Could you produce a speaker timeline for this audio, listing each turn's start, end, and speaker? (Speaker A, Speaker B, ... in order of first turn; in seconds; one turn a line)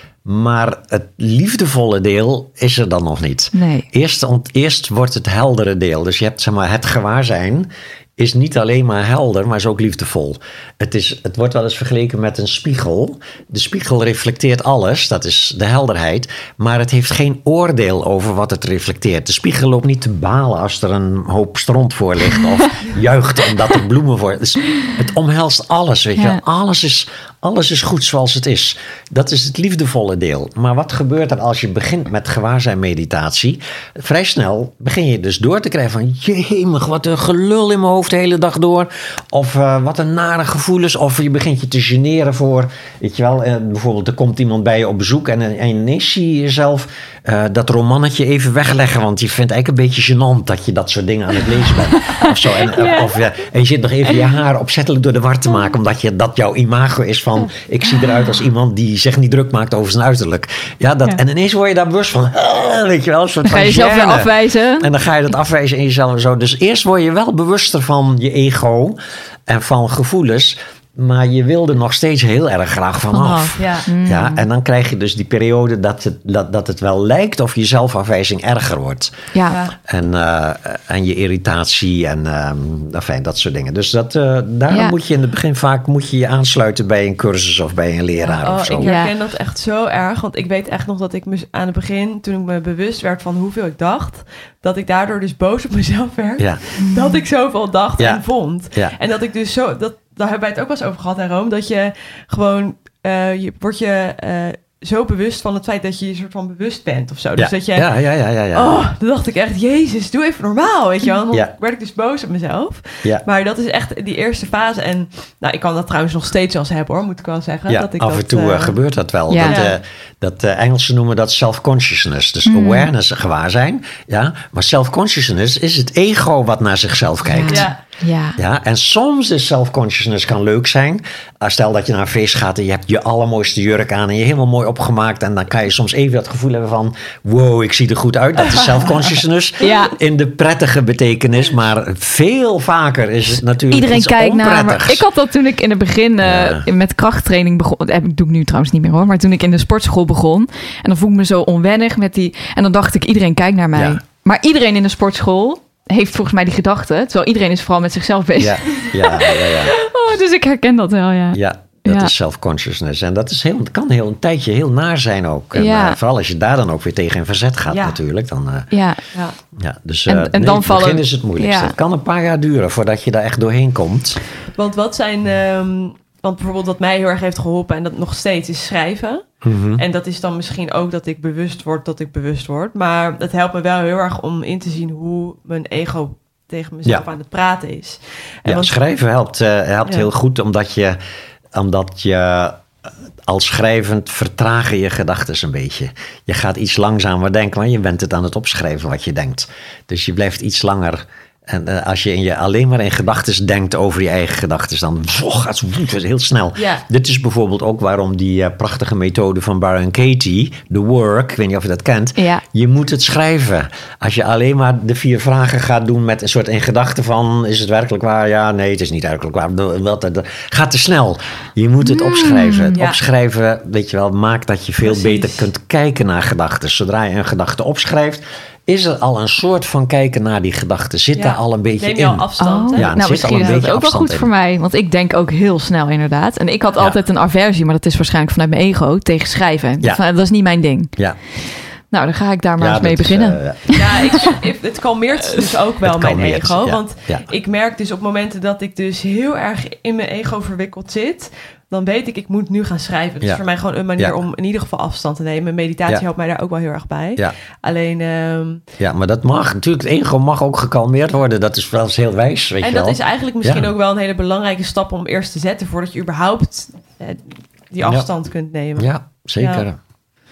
Speaker A: 0.2-79.1
Speaker B: 3.5-3.9
Speaker B: 51.9-53.1
Speaker B: 63.4-64.9
Speaker B: 73.1-74.4
Speaker C: 73.6-73.9
Speaker B: 79.3-79.6
Speaker C: 79.5-79.7
Speaker A: 79.8-88.9
Speaker B: 84.7-84.9
Speaker C: 88.2-107.9
Speaker B: 88.8-89.1
Speaker B: 96.8-97.2
Speaker A: 107.4-108.8
Speaker C: 108.5-118.8
Speaker A: 117.7-127.7
Speaker B: 119.3-119.6
Speaker C: 119.4-119.8
Speaker B: 122.5-122.9
Speaker B: 127.3-128.4
Speaker C: 127.4-127.8
Speaker A: 128.4-145.1
Speaker B: 139.6-139.9
Speaker B: 143.7-162.1
Speaker A: 146.2-146.7
Speaker A: 153.7-154.0
Speaker A: 158.4-159.8
Speaker A: 161.3-168.7
Speaker B: 165.5-166.0
Speaker C: 167.7-168.0
Speaker B: 168.7-169.0
Speaker A: 169.5-174.2
Speaker B: 170.1-171.7
Speaker C: 174.5-179.2
Speaker A: 179.4-179.8
Speaker C: 179.8-188.7
Speaker A: 188.4-191.0
Speaker A: 191.5-192.6
Speaker A: 193.3-234.3
Speaker C: 206.6-206.8
Speaker B: 212.2-212.4
Speaker B: 221.8-222.7
Speaker C: 222.7-223.0
Speaker C: 224.8-225.5
Speaker C: 231.2-233.6
Speaker B: 232.4-240.9
Speaker B: 241.9-244.2
Speaker A: 242.6-243.8
Speaker C: 243.7-258.6
Speaker A: 245.8-247.3
Speaker A: 258.8-263.7
Speaker C: 262.6-269.6
Speaker A: 268.8-269.8